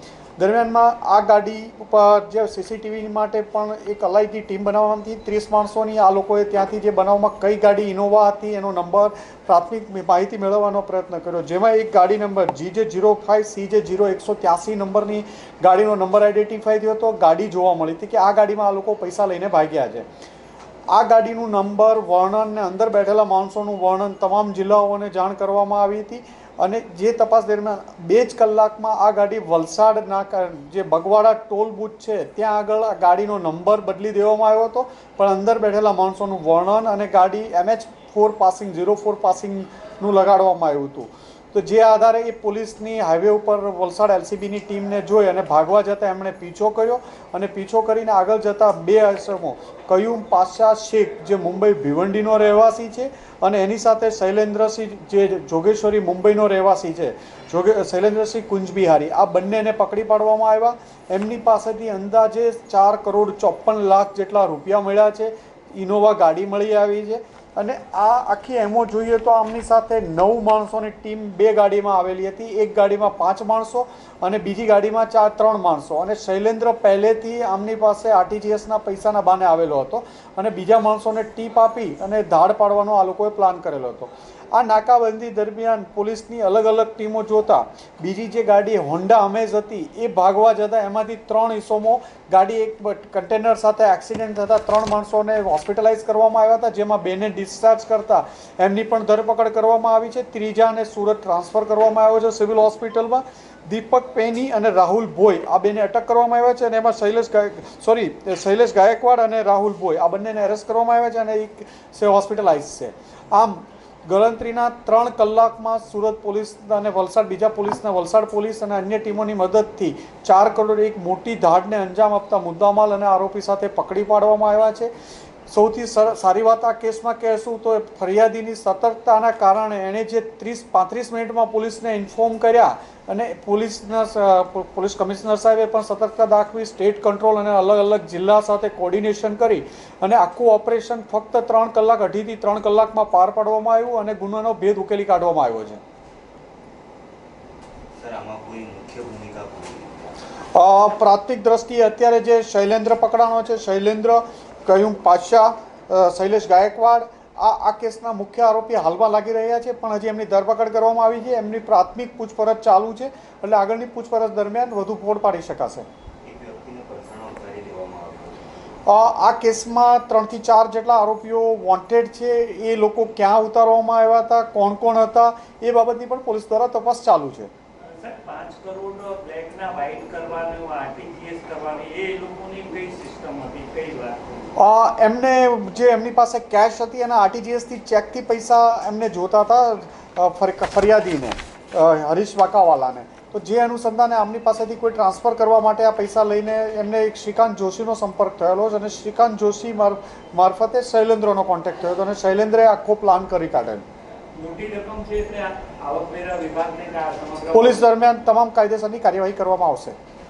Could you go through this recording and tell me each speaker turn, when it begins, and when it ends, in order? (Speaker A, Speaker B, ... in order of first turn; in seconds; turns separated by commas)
Speaker A: 0.4-20.1, Speaker A: 20.9-124.9, Speaker A: 125.5-145.8, Speaker B: 147.9-150.2, Speaker A: 150.5-165.9, Speaker B: 166.2-168.5, Speaker A: 168.9-177.5, Speaker C: 177.9-184.2, Speaker A: 184.6-203.8, Speaker C: 204.4-207.8, Speaker A: 207.5-210.0